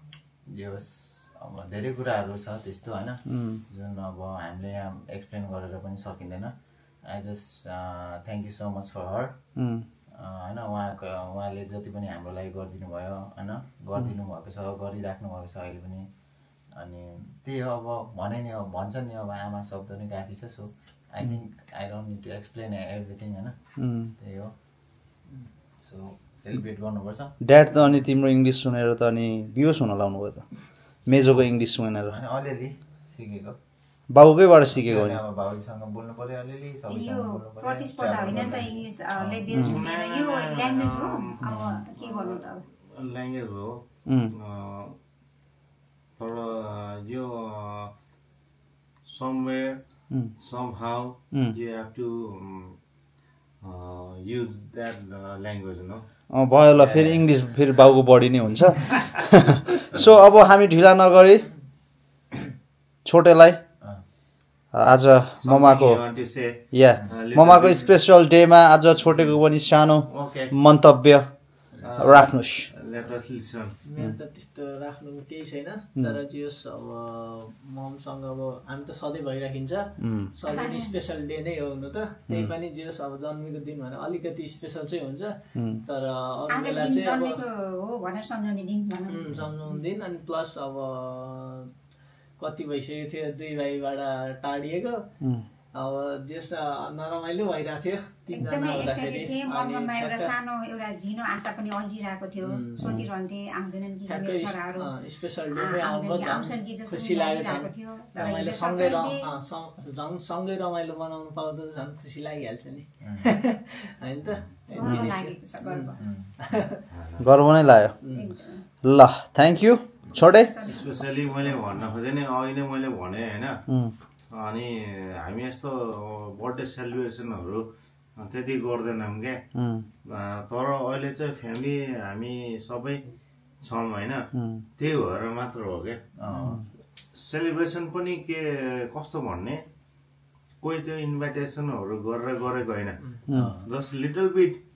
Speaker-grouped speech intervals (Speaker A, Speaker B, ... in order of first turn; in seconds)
Speaker A: 0.5-6.5, 7.1-9.4, 10.1-16.1, 16.8-23.6, 24.2-24.5, 25.8-27.9, 32.1-33.6, 34.7-39.5, 56.8-57.2, 113.0-113.3, 116.0-116.3, 136.3-136.6
Speaker B: 3.3-3.6, 9.6-9.9, 23.8-24.1, 27.4-30.4, 31.1-32.1, 34.1-35.2, 39.5-39.8, 44.1-44.3, 56.3-61.4, 63.0-63.6, 64.7-66.0, 66.7-71.2, 72.0-72.7, 80.0-80.3, 82.3-82.5, 85.6-85.8, 114.8-115.1, 117.2-118.0, 118.8-120.5, 123.7-123.9, 129.6-129.9, 134.3-134.6, 136.3-136.6, 143.3-143.6
Speaker C: 36.9-42.6, 80.5-80.9, 86.5-89.4, 98.3-104.9, 105.5-109.3, 114.7-116.0, 118.1-118.6, 120.1-120.9
Speaker D: 39.5-41.4, 42.0-43.8, 44.3-45.0, 46.2-47.9, 49.1-49.8, 50.4-52.8, 53.6-56.0, 65.4-66.5, 67.1-67.9, 70.1-70.5, 71.8-73.8, 116.9-117.2, 120.6-123.6, 124.3-129.4, 130.1-133.0, 133.6-136.0, 137.1-139.6, 140.6-143.0, 143.6-144.6
Speaker E: 73.8-87.4, 89.1-91.7, 92.4-95.0, 95.8-100.3, 102.4-103.0, 104.1-115.9, 116.4-116.8, 118.0-118.3